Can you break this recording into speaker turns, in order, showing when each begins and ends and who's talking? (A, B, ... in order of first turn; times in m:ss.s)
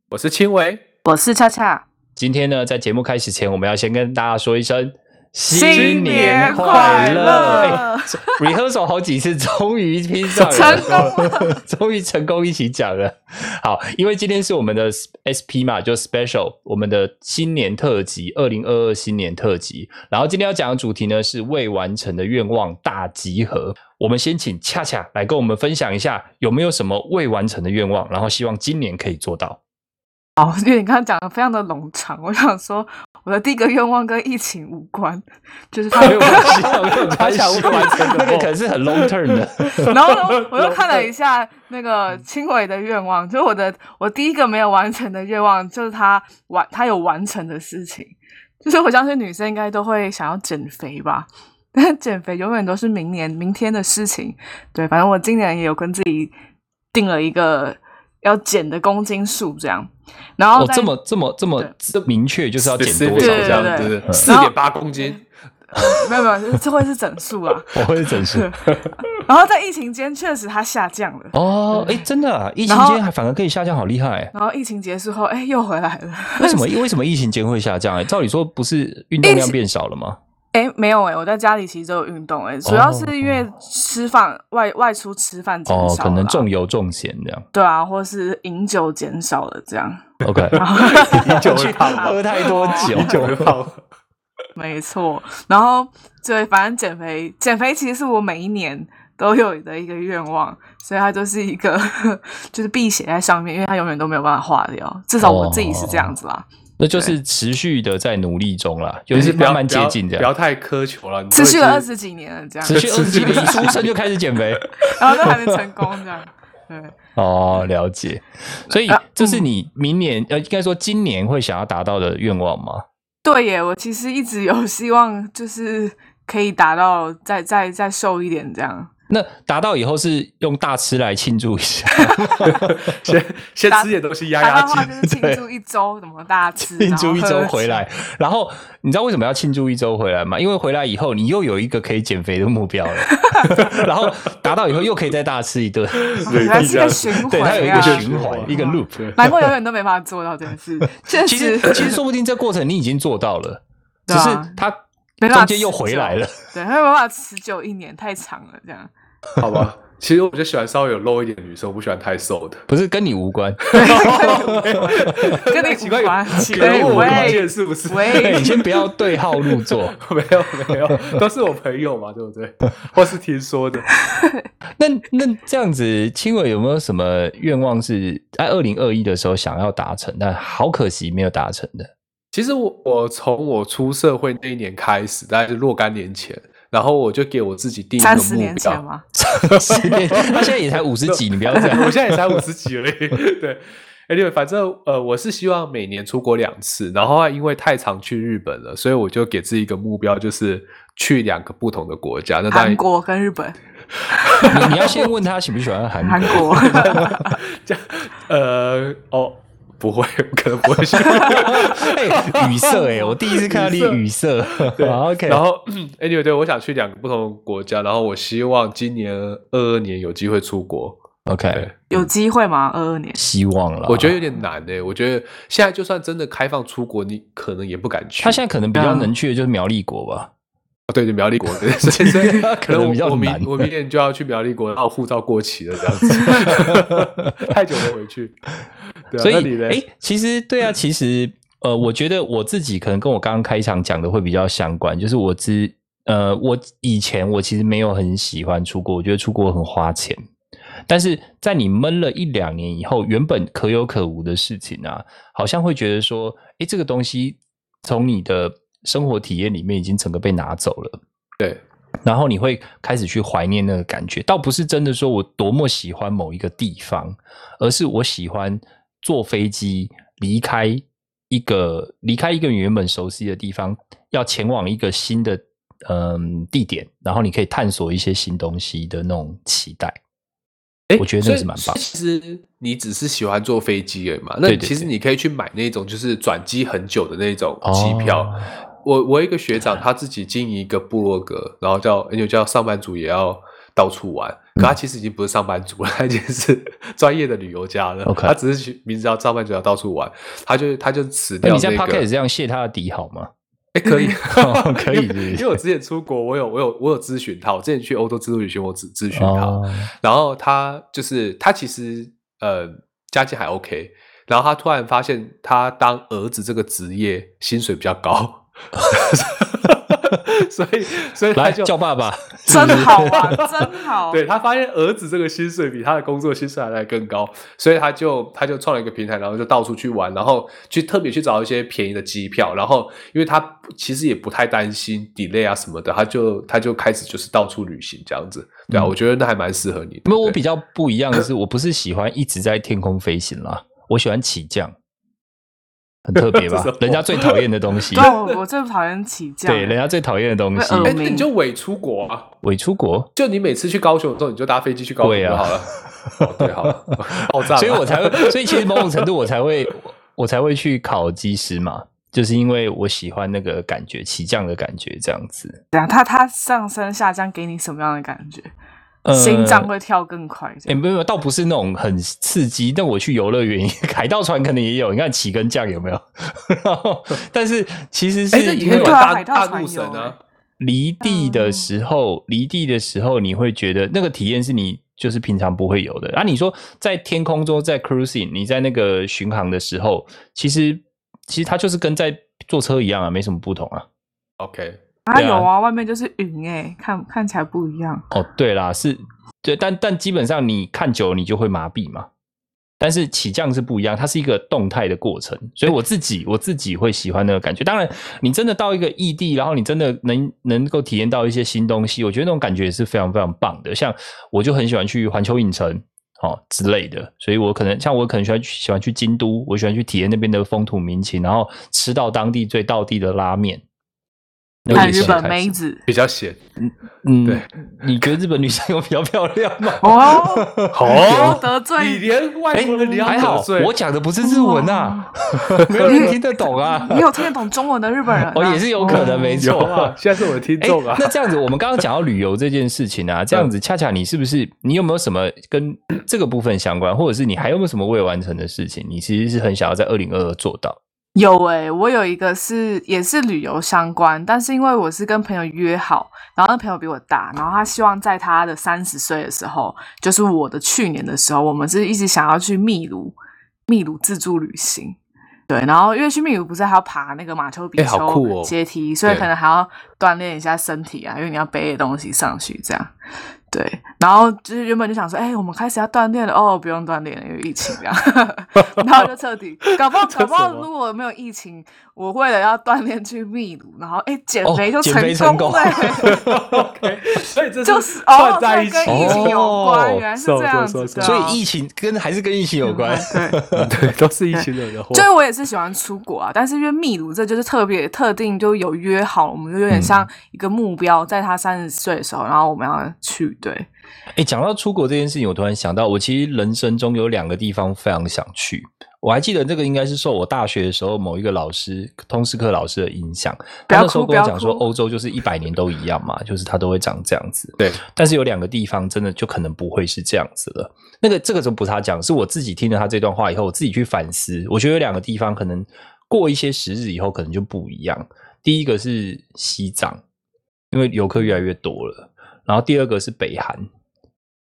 0:00.1-0:00.8 A
0:01.0-0:01.8 B
0:02.2-0:29.6 C
0:05.5-0:08.3 B
0:05.7-0:07.8 A
0:10.4-0:11.6 B
0:10.4-0:11.1 A
0:30.4-0:36.7 B
0:36.0-0:41.0 A
0:36.0-0:40.0 C
0:39.7-0:56.3 B
0:56.9-1:00.9 B
1:00.6-1:04.3 C
1:01.9-1:05.2 A
1:03.2-1:05.2 B
1:05.7-1:12.0 B
1:07.7-1:08.5 C
1:11.3-1:14.3 C
1:12.7-1:13.0 B
1:14.3-1:16.7 B
1:16.4-1:20.2 C
1:19.2-1:19.6 B
1:20.5-1:26.5 B
1:22.6-1:23.4 C
1:25.7-1:27.5 C
1:27.5-1:33.2 B
1:30.2-1:33.5 C
1:30.3-1:33.8 A
1:34.6-1:47.2 B
1:45.2-1:46.1 C
1:46.8-1:50.3 C
1:49.1-1:51.9 A
1:51.3-1:53.8 B
1:52.6-1:54.0 A
1:52.6-1:55.4 C
1:54.8-1:57.0 B
1:57.2-2:02.8 C
1:58.9-1:59.4 B
2:03.2-2:08.9 B
2:09.1-2:12.9 C
2:12.0-2:12.6 B
2:12.5-2:14.9 A
2:13.7-2:17.8 B
2:15.0-2:15.4 C
2:16.6-2:29.5 C
2:23.2-2:23.5 B
2:26.1-2:29.2 A
2:26.2-2:32.0 B
2:30.8-2:36.4 C
2:34.1-2:34.6 B
2:35.2-2:38.9 B
2:39.4-2:42.7 A
2:42.7-2:45.4 C
2:43.7-2:48.8 A
2:43.7-2:48.7 B
2:46.5-2:47.4 C
2:48.0-2:50.0 C
2:49.6-2:54.0 A
2:54.2-2:54.4 B
2:54.8-3:01.9 C
3:02.3-3:08.8 A
3:08.0-3:09.0 B
3:09.2-3:12.4 C
3:09.5-3:10.5 A
3:11.1-3:22.8 A
3:22.5-3:23.6 B
3:24.1-3:25.0 B
3:24.1-3:24.9 A
3:24.5-3:27.2 C
3:26.0-3:27.4 B
3:26.7-3:41.9 A
3:31.0-3:31.5 B
3:31.2-3:35.4 C
3:32.6-3:33.2 B
3:41.3-3:42.0 C
3:41.9-3:43.2 B
3:43.2-3:44.1 C
3:43.9-3:48.4 A
3:48.2-3:50.3 C
3:48.8-3:49.1 B
3:50.9-3:58.4 A
3:51.8-3:53.7 C
3:56.3-3:57.4 C
3:59.1-3:59.8 A
3:59.2-4:10.2 C
4:10.9-4:21.0 C
4:22.0-4:40.0 C
4:40.9-5:02.1 A
4:41.0-4:41.9 C
4:44.5-4:44.9 C
4:47.6-4:48.5 C
4:58.1-4:58.4 C
5:01.4-5:03.3 C
5:03.7-5:21.7 A
5:04.2-5:05.6 C
5:09.1-5:09.9 C
5:21.4-5:23.4 C
5:22.5-5:24.2 B
5:22.5-5:40.4 A
5:40.1-5:44.8 C
5:46.1-5:48.1 C
5:46.2-5:48.4 A
5:47.9-5:49.8 B
5:49.5-5:51.1 C
5:50.6-5:51.3 B
5:50.8-5:52.3 A
5:52.4-5:53.1 C
5:53.2-5:59.1 A
5:55.0-6:05.6 C
6:05.7-6:08.5 B
6:09.0-6:09.7 C
6:09.1-6:10.8 B
6:10.7-6:19.0 C
6:18.3-6:20.2 A
6:18.7-6:20.2 B
6:20.6-6:33.9 C
6:21.0-6:21.7 B
6:34.4-6:34.8 A
6:35.1-6:38.0 B
6:35.2-6:35.5 C
6:38.1-6:42.1 C
6:42.8-7:03.6 C
7:04.6-7:05.5 C
7:04.7-7:05.2 A
7:04.7-7:05.8 B
7:05.9-7:06.4 A
7:06.6-7:11.4 C
7:09.8-7:12.1 B
7:10.7-7:13.8 A
7:12.6-7:17.3 C
7:12.7-7:13.3 B
7:14.2-7:15.1 B
7:15.6-7:16.1 A
7:15.8-7:19.6 B
7:18.3-7:20.0 C
7:18.9-7:21.1 A
7:20.6-7:30.8 C
7:31.2-7:43.2 B
7:43.7-7:45.0 B
7:45.5-7:52.9 B
7:47.8-7:48.5 A
7:53.5-8:06.2 B
8:00.0-8:00.7 A
8:04.5-8:06.7 C
8:06.0-8:09.4 A
8:07.1-8:11.4 B
8:08.9-8:10.0 C
8:10.2-8:11.2 A
8:11.0-8:13.9 C
8:12.6-8:13.4 B
8:13.6-8:15.1 A
8:14.4-8:23.7 B
8:19.7-8:20.0 C
8:24.2-8:50.0 C
8:33.7-8:34.6 B
8:50.7-8:53.7 C